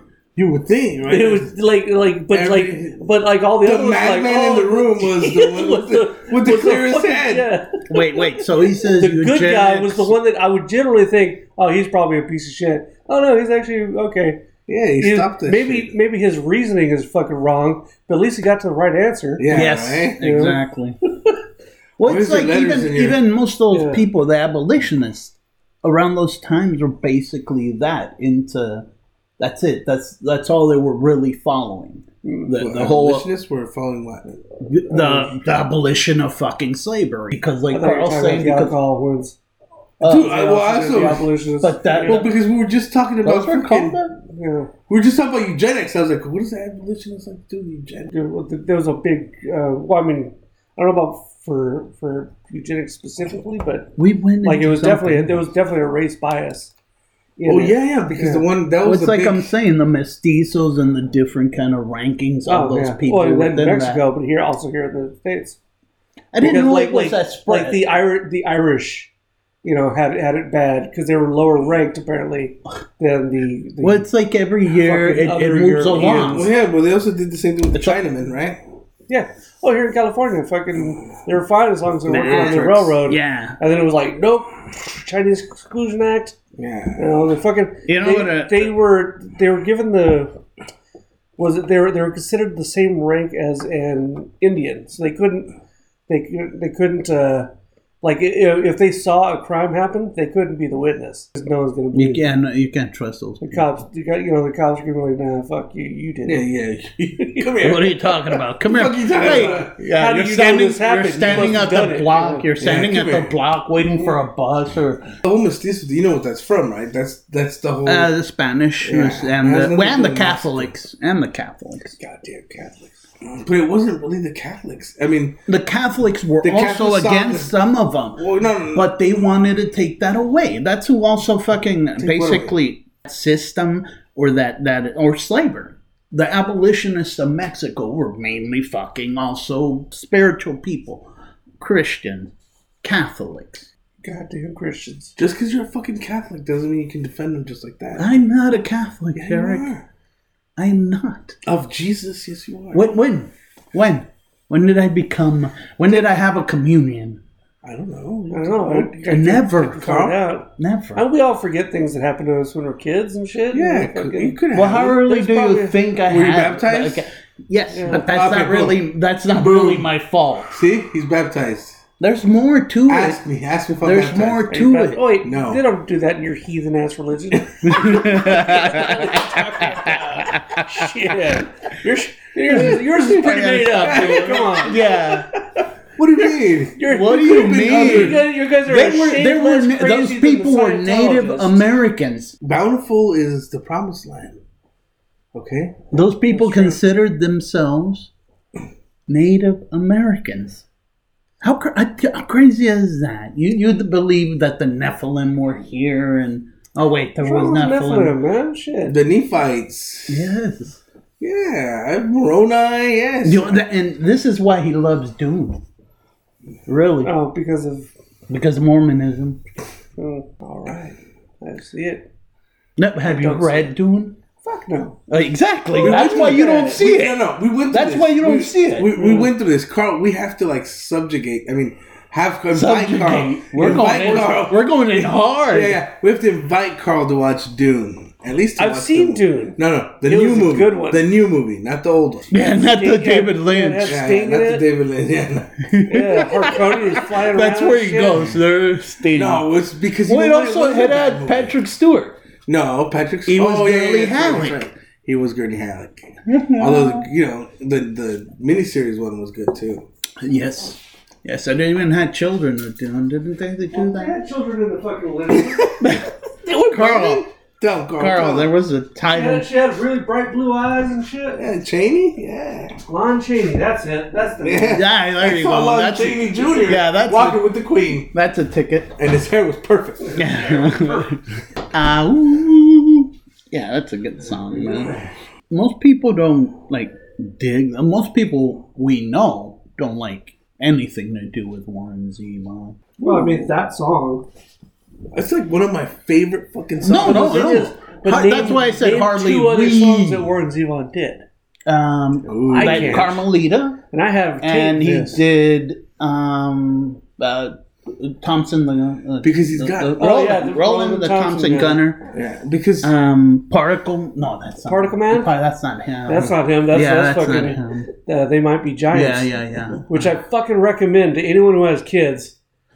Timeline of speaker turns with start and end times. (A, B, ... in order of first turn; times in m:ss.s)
0:00.4-0:01.5 A
0:01.0-0:14.4 B
0:02.3-0:03.0 A
0:03.6-0:07.5 A
0:07.9-0:10.1 C
0:14.7-0:16.0 A
0:15.0-0:19.5 B
0:19.4-0:20.2 A
0:19.5-0:21.0 C
0:20.2-0:20.6 B
0:22.0-0:28.9 C
0:22.0-0:23.2 A
0:23.7-0:24.0 B
0:29.4-0:33.3 C
0:32.2-0:32.5 B
0:32.5-0:34.4 A
0:34.6-0:38.8 C
0:34.9-0:35.4 B
0:37.7-0:39.4 B
0:40.0-0:42.4 C
0:40.0-0:41.4 A
0:40.1-0:42.2 B
0:42.0-0:44.0 A
0:43.2-0:44.2 C
0:44.3-0:44.7 B
0:44.9-0:48.2 A
0:48.1-0:56.7 B
0:54.0-0:55.4 C
0:57.4-0:58.5 B
0:57.5-0:59.5 A
0:58.8-1:04.1 C
1:02.5-1:05.6 B
1:06.3-1:07.8 C
1:06.4-1:09.1 B
1:09.6-1:14.0 B
1:13.8-1:16.5 C
1:14.7-1:16.5 B
1:15.9-1:18.6 A
1:17.7-1:18.0 C
1:19.1-1:26.4 B
1:22.1-1:22.9 A
1:22.1-1:23.6 C
1:26.6-1:27.1 A
1:27.0-1:30.4 B
1:27.9-1:28.7 C
1:31.4-1:35.5 B
1:36.1-1:37.5 B
1:38.0-1:42.3 B
1:41.9-1:43.7 C
1:43.4-1:46.5 B
1:46.3-1:49.7 A
1:47.6-1:55.2 C
1:49.2-1:52.5 B
1:51.2-1:51.5 A
1:52.6-1:53.4 A
1:55.2-1:58.1 A
1:57.8-2:02.0 C
1:58.8-2:00.7 A
2:02.0-2:02.5 A
2:02.2-2:02.8 B
2:03.2-2:05.4 A
2:05.5-2:21.1 C
2:06.4-2:07.5 A
2:08.2-2:09.0 A
2:12.0-2:12.6 A
2:21.6-2:22.3 C
2:22.8-2:23.7 C
2:24.0-2:25.2 B
2:25.2-2:28.2 A
2:28.0-2:29.7 C
2:29.2-2:29.8 A
2:30.6-2:31.4 C
2:31.4-2:32.9 A
2:32.7-2:37.2 C
2:37.6-2:40.2 A
2:38.3-2:44.4 B
2:39.1-2:40.0 C
2:40.6-2:41.1 C
2:43.5-2:45.0 A
2:44.5-2:50.6 C
2:45.0-2:45.8 B
2:46.1-2:47.1 A
2:47.7-2:48.1 B
2:47.9-2:49.9 A
2:50.5-2:51.8 A
2:52.0-2:53.2 C
2:52.9-2:54.5 A
2:53.8-2:55.0 C
2:54.5-3:04.8 B
2:55.2-2:55.6 A
2:57.6-3:00.9 C
3:02.5-3:05.3 C
3:02.5-3:04.8 A
3:06.0-3:08.3 A
3:06.7-3:11.6 B
3:06.9-3:12.4 C
3:12.4-3:14.4 A
3:15.3-3:15.8 A
3:15.9-3:18.1 C
3:16.3-3:16.7 B
3:19.1-3:20.6 C
3:21.4-3:28.2 C
3:27.2-3:29.0 B
3:28.9-3:30.3 A
3:30.1-3:30.8 C
3:31.2-3:33.6 A
3:33.2-3:35.6 C
3:36.7-3:37.1 C
3:37.0-3:37.9 B
3:38.3-3:39.4 C
3:40.0-3:42.1 B
3:42.8-3:44.2 C
3:43.1-3:43.7 B
3:44.4-3:45.0 B
3:45.1-3:49.0 C
3:45.7-3:46.8 B
3:45.8-4:02.3 A
3:48.9-3:49.3 B
3:52.5-3:55.8 C
3:58.6-4:01.0 B
4:02.3-4:04.0 C
4:02.3-4:04.6 B
4:03.9-4:05.6 A
4:05.7-4:09.5 C
4:05.9-4:08.4 B
4:09.1-4:11.6 A
4:10.1-4:12.2 C
4:12.5-4:19.9 A
4:13.3-4:14.7 C
4:16.2-4:17.1 C
4:20.2-4:24.3 C
4:23.7-4:25.8 B
4:25.6-4:25.8 A
4:25.8-4:26.1 C
4:26.4-4:28.5 A
4:26.6-4:27.3 C
4:28.0-4:29.5 C
4:29.1-4:31.4 B
4:31.4-4:32.8 A
4:32.9-4:34.8 B
4:34.4-4:38.1 A
4:34.7-4:37.4 C
4:38.1-4:39.0 C
4:39.0-4:40.2 A
4:40.2-4:41.2 C
4:40.2-4:41.1 B
4:41.7-4:45.0 C
4:45.5-4:52.8 C
4:53.0-4:53.5 A
4:53.0-4:54.3 B
4:55.1-4:57.7 A
4:56.8-5:00.3 C
4:56.9-5:01.2 B
5:01.7-5:03.8 C
5:02.3-5:03.1 A
5:02.5-5:03.2 B
5:03.9-5:05.2 B
5:04.4-5:12.0 C
5:09.2-5:10.1 A
5:10.0-5:11.8 B
5:12.1-5:12.9 A
5:12.8-5:17.9 C
5:14.6-5:15.3 B
5:16.1-5:19.4 B
5:18.9-5:20.2 C
5:19.9-5:22.4 B